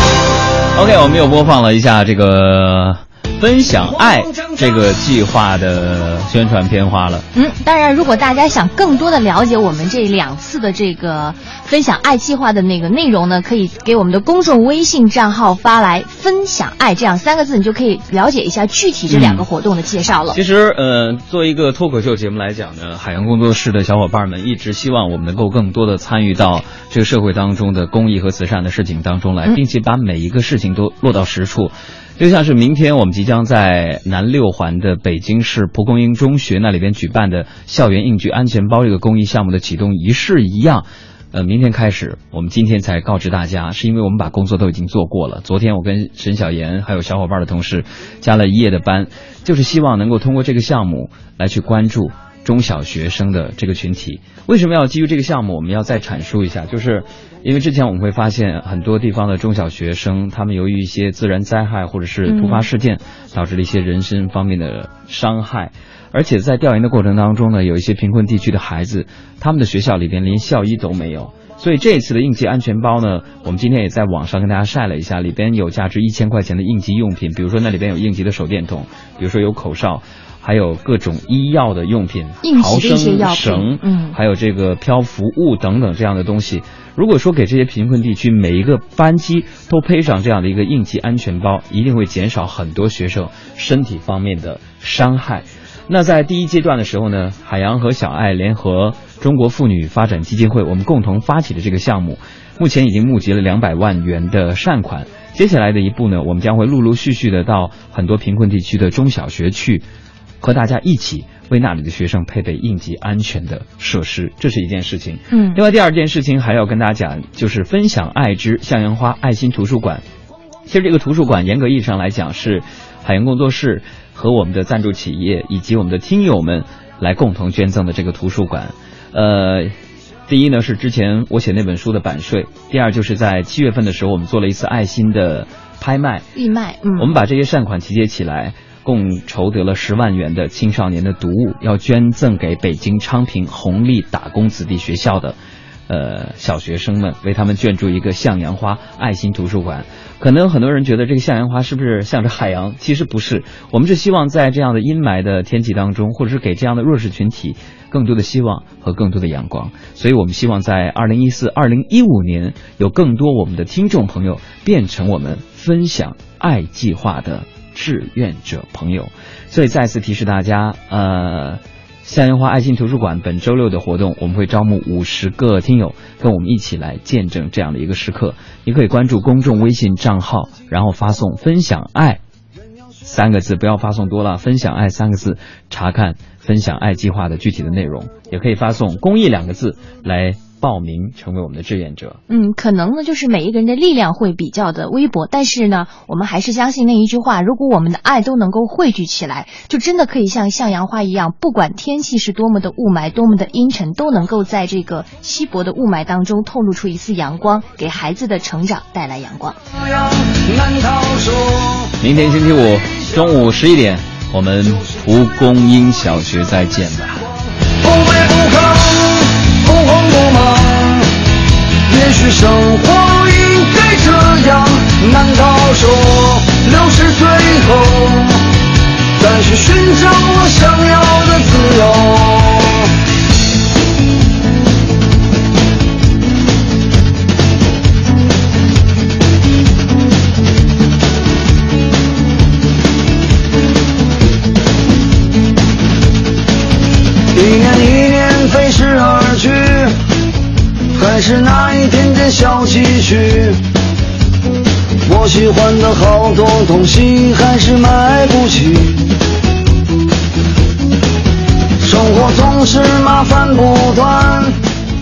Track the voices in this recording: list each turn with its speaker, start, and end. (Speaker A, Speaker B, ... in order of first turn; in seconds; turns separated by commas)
Speaker A: 0.8-7.2, Speaker B: 7.3-20.4, Speaker A: 19.1-19.5, Speaker A: 20.3-109.8, Speaker B: 62.2-62.7, Speaker B: 82.4-84.2, Speaker A: 110.4-120.0, Speaker B: 115.3-115.6, Speaker A: 120.7-129.7, Speaker A: 130.3-136.3, Speaker B: 136.4-137.1, Speaker A: 137.0-145.4, Speaker A: 145.9-182.2, Speaker A: 183.0-192.2, Speaker B: 192.3-209.6, Speaker C: 209.8-211.9, Speaker A: 212.0-217.2, Speaker C: 217.8-221.1, Speaker C: 221.9-228.4, Speaker C: 229.2-232.9, Speaker C: 247.3-250.0, Speaker C: 250.9-253.6, Speaker C: 255.1-259.0, Speaker C: 261.8-264.6